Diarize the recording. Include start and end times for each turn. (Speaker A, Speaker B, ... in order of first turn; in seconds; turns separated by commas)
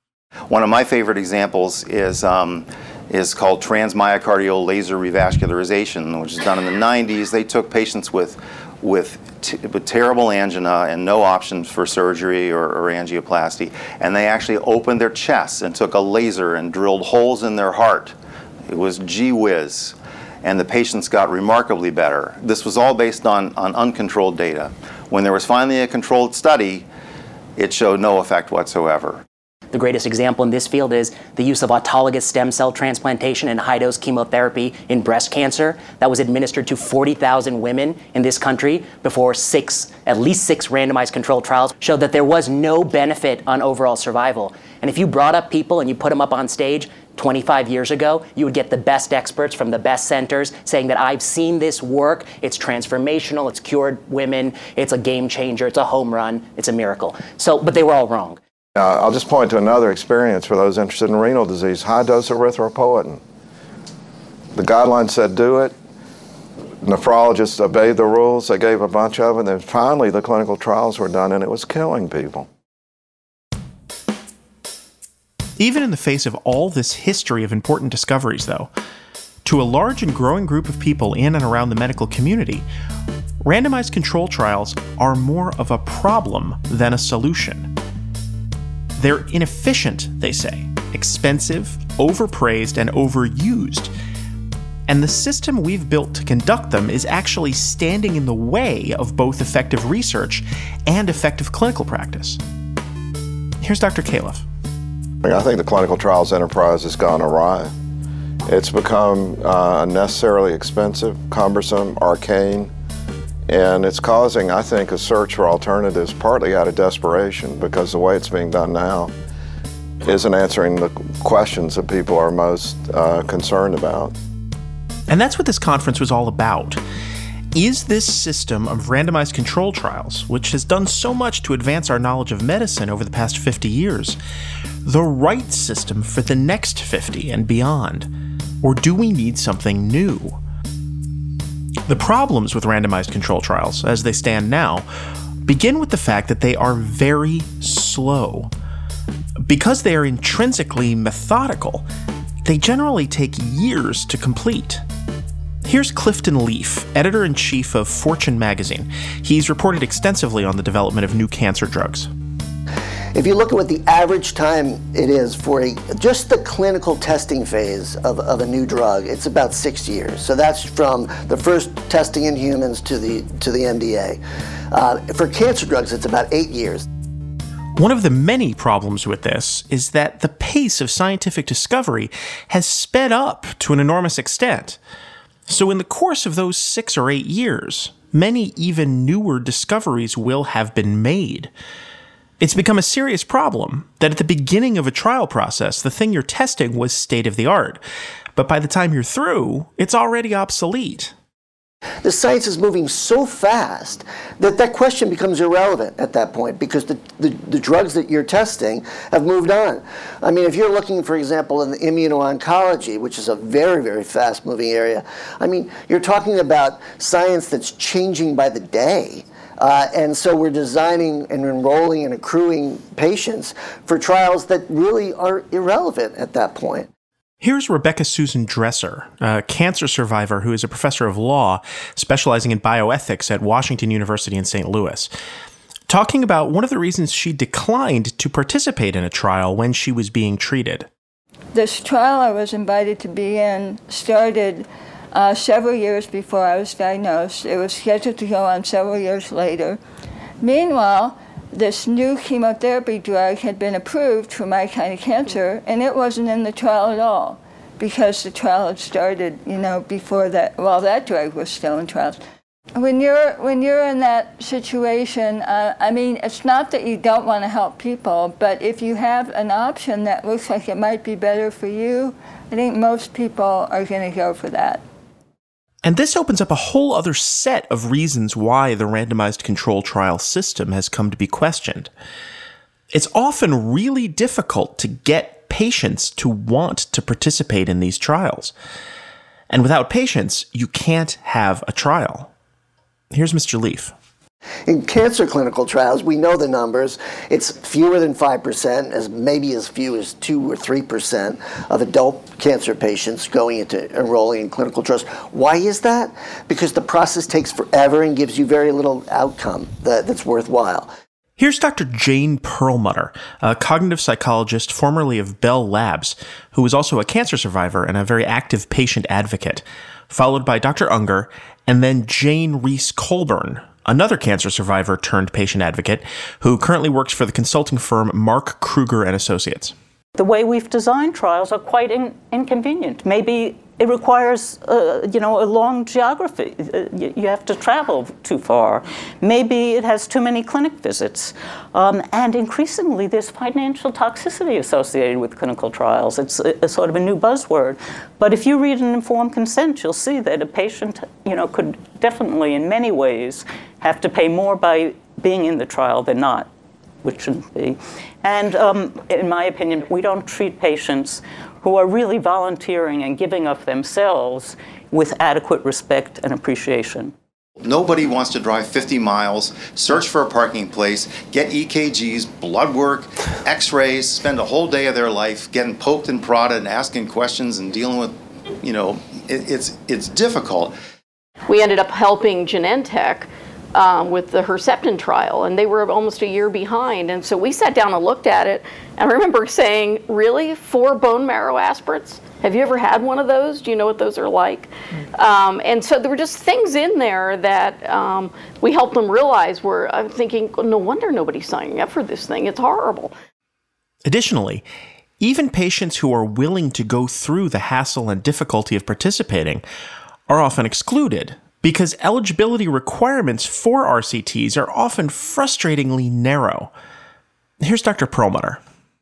Speaker A: 0.5-18.1, Speaker A: 18.7-26.9, Speaker A: 27.6-29.2, Speaker B: 29.7-58.4, Speaker C: 58.8-63.2, Speaker C: 64.5-65.7, Speaker C: 66.8-72.5, Speaker D: 75.6-78.7, Speaker D: 79.4-82.7, Speaker D: 83.4-87.7, Speaker D: 89.0-93.9, Speaker D: 94.9-102.4, Speaker D: 103.6-104.4, Speaker C: 105.2-107.7, Speaker C: 108.5-112.7, Speaker C: 113.5-119.1, Speaker C: 120.0-124.1, Speaker D: 125.1-126.8, Speaker D: 127.5-134.2, Speaker D: 134.8-138.1, Speaker D: 138.6-140.4, Speaker D: 141.9-144.8, Speaker D: 145.4-148.5, Speaker D: 149.4-151.9, Speaker D: 152.4-154.8, Speaker D: 155.6-162.1, Speaker E: 163.1-174.2, Speaker E: 174.7-176.8, Speaker D: 177.8-184.8, Speaker D: 185.5-191.5, Speaker D: 192.4-197.8, Speaker D: 198.3-201.1, Speaker E: 202.0-226.9, Speaker D: 227.4-235.1, Speaker D: 235.9-240.9, Speaker F: 241.5-249.8, Speaker F: 250.4-262.2, Speaker F: 262.8-274.8, Speaker D: 275.8-281.9, Speaker D: 282.9-288.5, Speaker D: 289.5-292.3, Speaker D: 293.1-293.9, Speaker E: 294.7-310.9, Speaker D: 311.4-329.7, Speaker G: 330.1-356.5, Speaker G: 357.0-367.1, Speaker A: 367.6-380.7, Speaker H: 381.5-403.1, Speaker D: 404.0-404.7, Speaker D: 405.2-409.6, Speaker D: 410.3-416.7, Speaker D: 417.6-418.6